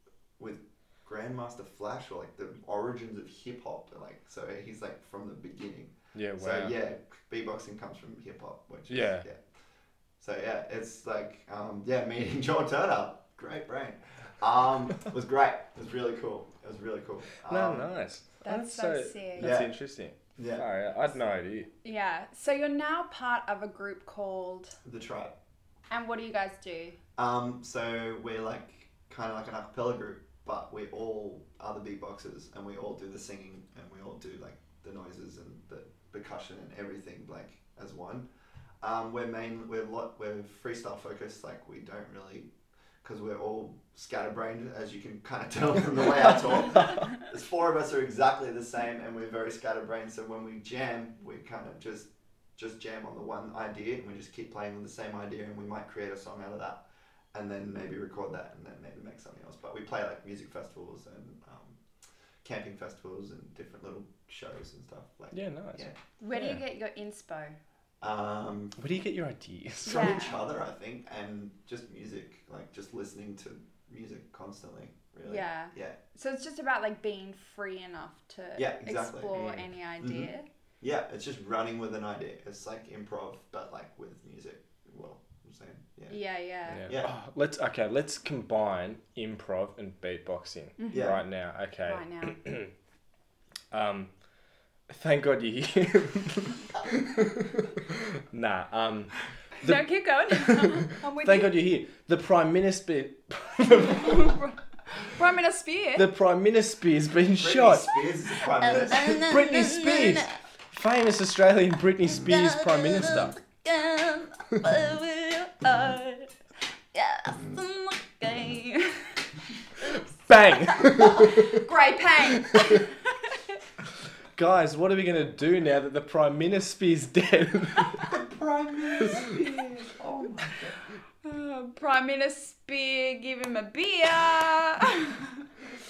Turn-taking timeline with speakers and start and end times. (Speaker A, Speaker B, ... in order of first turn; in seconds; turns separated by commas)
Speaker A: 0.4-9.4, Speaker B: 6.1-6.7, Speaker B: 8.9-9.2, Speaker A: 10.2-17.9, Speaker B: 17.4-21.7, Speaker C: 18.4-19.6, Speaker A: 19.4-19.7, Speaker A: 20.4-20.7, Speaker C: 21.8-24.8, Speaker A: 24.8-25.3, Speaker C: 25.9-27.0, Speaker A: 27.2-38.3, Speaker A: 38.8-42.5, Speaker A: 43.0-61.8, Speaker A: 62.4-66.0, Speaker B: 65.3-66.6, Speaker C: 66.2-67.6, Speaker A: 68.0-68.8, Speaker B: 68.8-70.2, Speaker C: 69.8-70.4, Speaker A: 69.8-76.0, Speaker C: 75.2-80.5, Speaker A: 78.5-79.4, Speaker B: 79.3-79.7, Speaker A: 80.0-80.3, Speaker A: 80.8-86.2, Speaker C: 86.1-86.9, Speaker B: 86.7-92.7, Speaker A: 86.9-87.1, Speaker C: 90.8-91.2, Speaker A: 90.9-91.2, Speaker C: 91.8-92.4, Speaker B: 93.7-94.1, Speaker B: 94.9-104.4, Speaker C: 99.6-101.5, Speaker C: 103.9-106.0, Speaker B: 106.0-107.9, Speaker A: 107.4-109.2, Speaker C: 108.6-110.4, Speaker B: 108.9-113.4, Speaker C: 112.2-116.3, Speaker C: 116.9-120.0, Speaker B: 120.2-121.6, Speaker C: 121.0-123.5, Speaker B: 122.4-122.8, Speaker B: 124.3-128.1, Speaker A: 128.1-130.8, Speaker C: 131.2-135.4